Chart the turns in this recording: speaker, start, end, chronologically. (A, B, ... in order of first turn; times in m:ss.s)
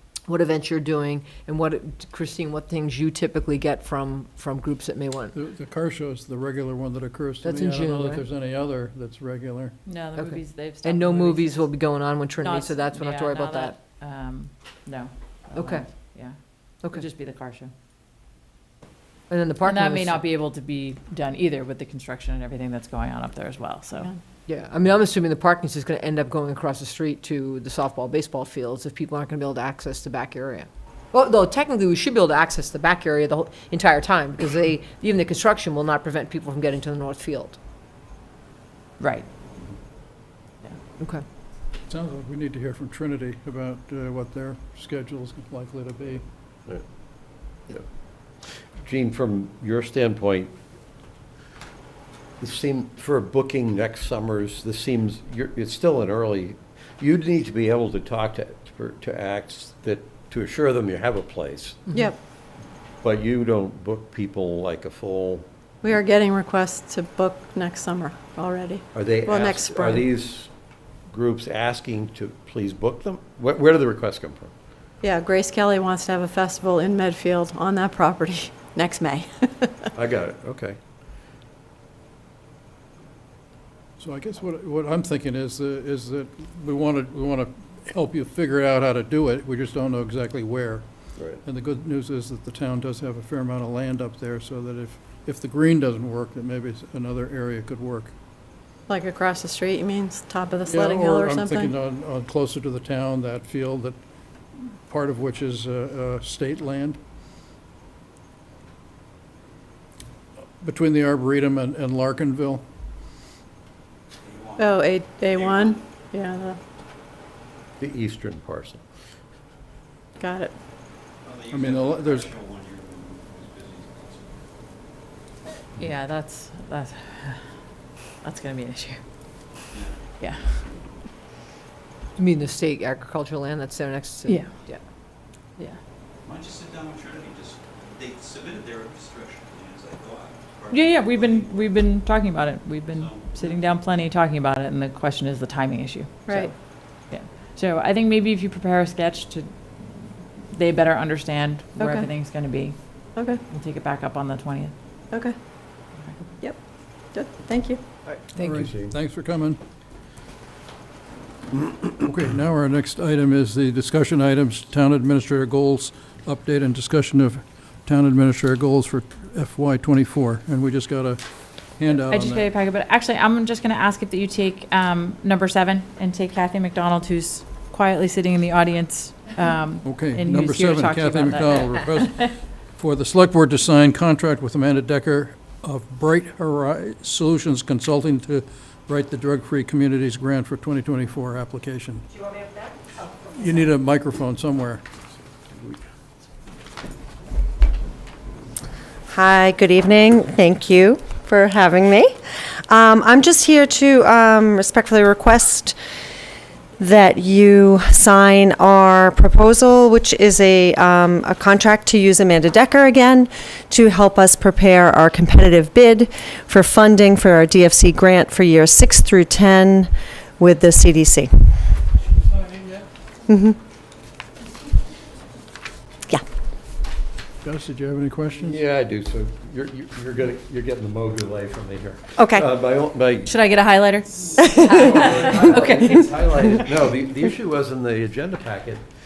0:00.3-0:05.4 A
0:05.3-0:09.8 B
0:07.4-0:08.2 A
0:09.8-0:11.8 C
0:10.2-0:13.7 A
0:12.4-0:17.7 C
0:15.6-0:15.9 A
0:19.3-0:20.2 A
0:19.6-0:24.1 C
0:24.5-0:37.6 A
0:39.0-0:39.3 C
0:41.9-0:46.2 B
0:48.7-0:50.5 D
0:52.4-1:01.9 D
1:03.0-1:05.5 D
1:05.8-1:10.1 E
1:09.0-1:10.5 D
1:11.1-1:14.5 D
1:15.0-1:19.9 E
1:20.0-1:20.8 D
1:24.0-1:30.9 B
1:31.4-1:38.1 B
1:38.9-1:41.7 E
1:40.7-1:44.0 B
1:44.9-1:47.0 B
1:50.6-1:52.6 B
1:54.2-1:54.7 F
1:54.6-1:56.6 E
1:55.3-1:55.8 F
1:57.8-1:58.8 D
2:00.2-2:00.5 E
2:01.2-2:04.4 F
2:01.5-2:02.3 B
2:05.8-2:07.5 C
2:08.2-2:09.0 C
2:09.7-2:10.0 F
2:10.2-2:10.6 C
2:12.2-2:14.8 A
2:14.3-2:14.6 C
2:16.2-2:21.8 F
2:20.7-2:26.5 C
2:22.9-2:23.4 F
2:27.1-2:32.8 C
2:31.8-2:32.1 E
2:33.5-2:34.7 C
2:36.0-2:36.3 C
2:37.1-2:37.8 E
2:38.1-2:38.9 D
2:38.3-2:39.6 B
2:38.4-2:38.6 A
2:42.0-2:51.2 B
2:51.8-2:52.5 B
2:52.0-3:02.3 C
2:59.8-3:12.1 B
3:12.2-3:12.5 E
3:13.3-3:14.8 B
3:19.1-3:22.2 G
3:22.7-3:25.8 G
3:26.8-3:41.5 G
3:43.3-3:43.6 G
3:47.4-3:48.6 B
3:48.3-3:53.3 D
3:52.2-3:52.4 G
3:53.2-3:56.2 C
3:54.4-3:56.0 G
3:54.7-3:58.8 D